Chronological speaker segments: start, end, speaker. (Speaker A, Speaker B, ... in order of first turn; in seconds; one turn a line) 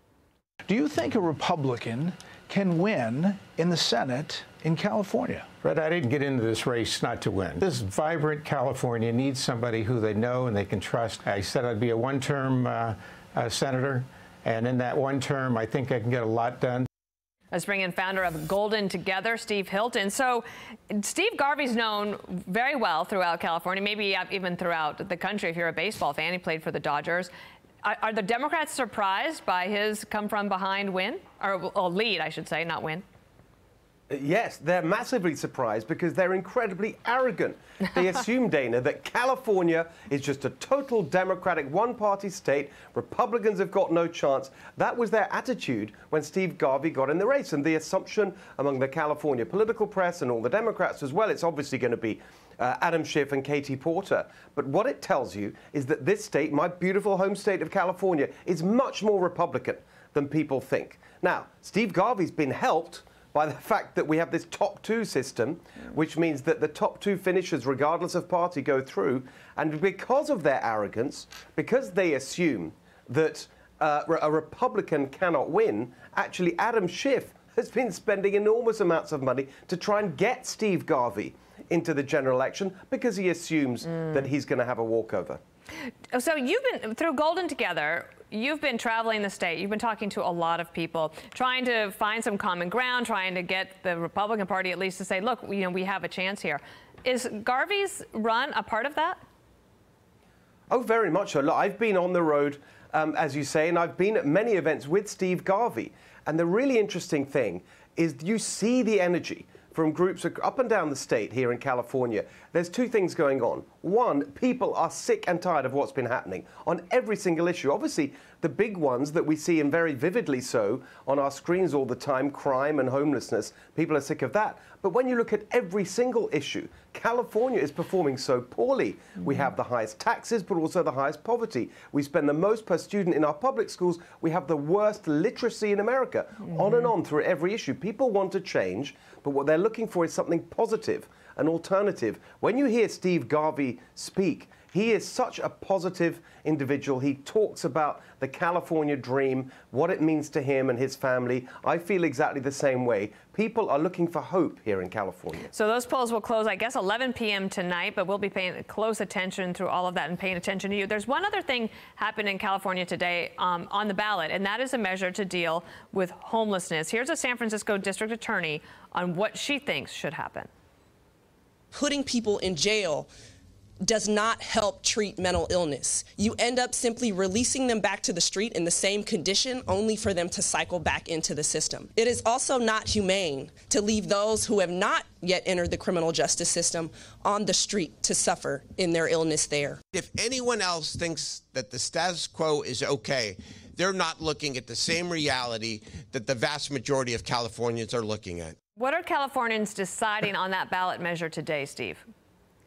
Speaker A: 0.7-5.5
Speaker B: 5.6-16.9
Speaker C: 17.5-27.3
Speaker C: 27.8-33.0
Speaker D: 34.1-85.4
Speaker C: 86.1-99.2
Speaker D: 100.7-155.5
Speaker C: 155.5-170.5
Speaker E: 171.7-173.1
Speaker E: 173.8-189.8
Speaker F: 189.9-198.6
Speaker C: 198.8-202.0